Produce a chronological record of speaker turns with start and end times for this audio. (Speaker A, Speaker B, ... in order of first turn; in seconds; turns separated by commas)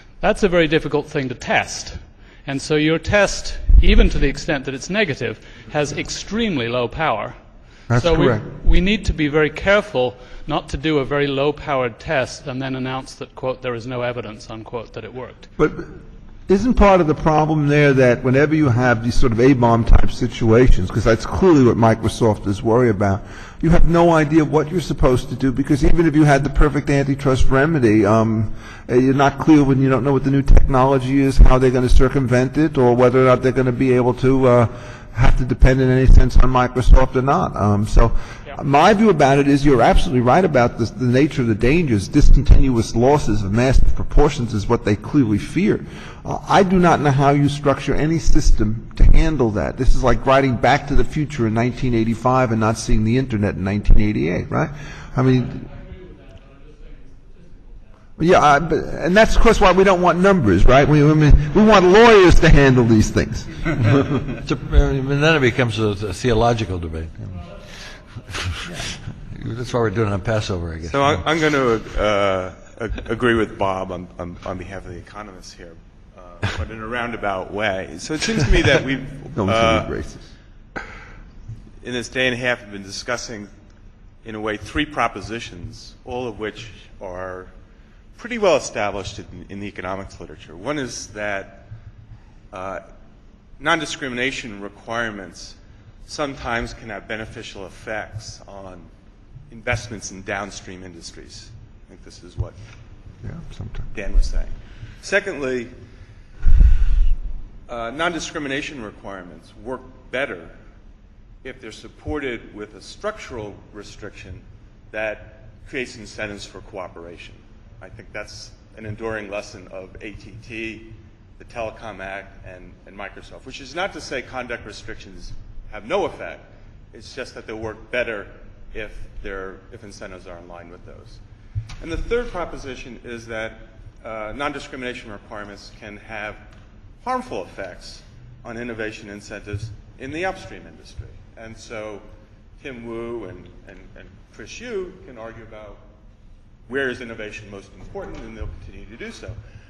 Speaker A: 0.2-15.5, Speaker B: 7.9-8.4, Speaker B: 15.6-15.9, Speaker B: 16.5-55.6, Speaker B: 58.2-64.2, Speaker C: 64.4-67.4, Speaker C: 68.6-71.2, Speaker D: 70.8-79.9, Speaker B: 79.3-80.3, Speaker D: 81.8-83.5, Speaker D: 84.2-87.5, Speaker D: 88.2-91.7, Speaker D: 92.5-92.8, Speaker D: 93.6-98.9, Speaker D: 99.5-102.6, Speaker B: 103.2-103.9, Speaker D: 103.9-105.8, Speaker D: 107.7-110.5, Speaker D: 111.4-131.2, Speaker D: 131.8-136.4, Speaker D: 137.0-142.1, Speaker D: 142.6-145.9, Speaker D: 146.7-149.4